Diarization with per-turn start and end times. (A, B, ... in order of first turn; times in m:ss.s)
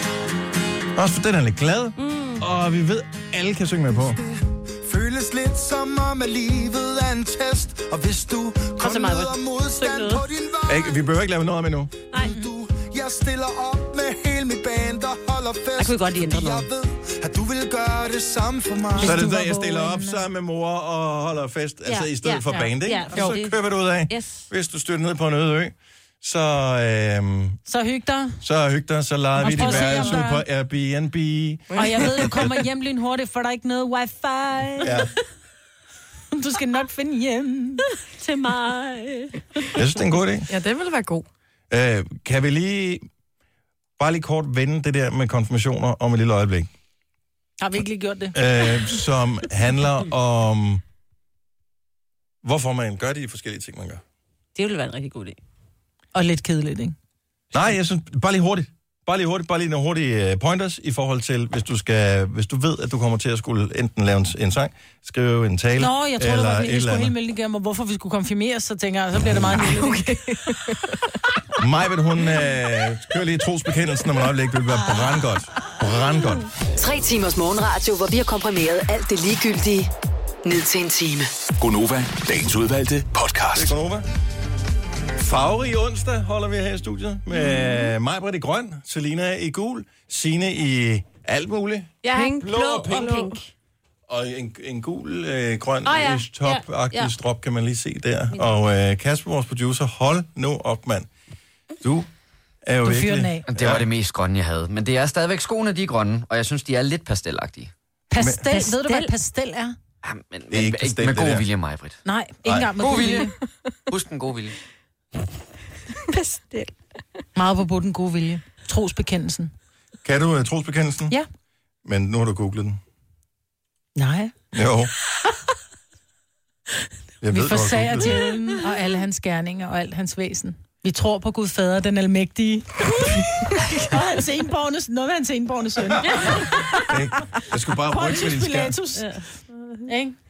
0:01.0-0:04.2 A
0:02.0-0:02.4 B
0:04.3-0:11.0 C
0:08.8-0:10.2 B
0:10.7-0:11.9 A
0:12.2-0:19.2 C
0:12.2-0:12.5 D
0:15.8-0:16.7 B
0:19.0-0:20.2 D
0:19.0-0:27.6 A
0:21.9-0:24.5 B
0:22.5-0:23.3 D
0:27.7-0:28.4 D
0:28.4-0:32.6 A
0:29.4-0:30.4 D
0:29.4-0:30.2 B
0:31.7-0:32.0 E
0:31.8-0:35.0 D
0:34.8-0:35.1 A
0:36.3-0:37.8 D
0:38.2-0:39.7 B
0:39.8-0:40.5 A
0:40.5-0:41.3 E
0:41.7-0:43.1 A
0:44.0-0:46.7 A
0:47.6-0:49.0 D
0:48.3-0:50.8 A
0:52.4-0:54.0 A
0:54.6-0:55.4 B
0:56.1-0:57.0 D
0:57.5-1:07.1 A
1:05.8-1:10.2 D
1:09.6-1:11.0 E
1:11.6-1:16.5 A
1:16.8-1:19.9 F
1:20.4-1:21.3 F
1:21.6-1:23.7 G
1:23.5-1:24.1 A
1:25.2-1:33.2 A
1:32.0-1:33.5 B
1:32.1-1:33.3 E
1:34.1-1:41.1 A
1:35.8-1:37.1 B
1:41.8-1:42.1 A
1:42.6-1:43.9 A
1:42.8-1:43.5 D
1:43.5-1:47.7 H
1:48.1-1:49.8 D
1:48.5-1:49.1 B
1:50.0-1:52.0 H
1:50.5-1:51.5 A
1:52.0-1:53.4 D
1:52.4-1:52.7 A
1:52.8-1:53.2 H
1:52.8-1:53.3 E
1:53.9-1:54.6 H
1:56.1-1:56.7 E
1:57.4-1:59.5 D
2:00.0-2:01.2 A
2:01.8-2:02.8 A
2:04.0-2:04.3 D
2:04.5-2:04.9 A
2:07.2-2:08.3 A
2:07.3-2:17.0 D
2:16.9-2:18.8 A
2:17.9-2:19.2 D
2:19.0-2:19.2 B
2:19.9-2:20.2 D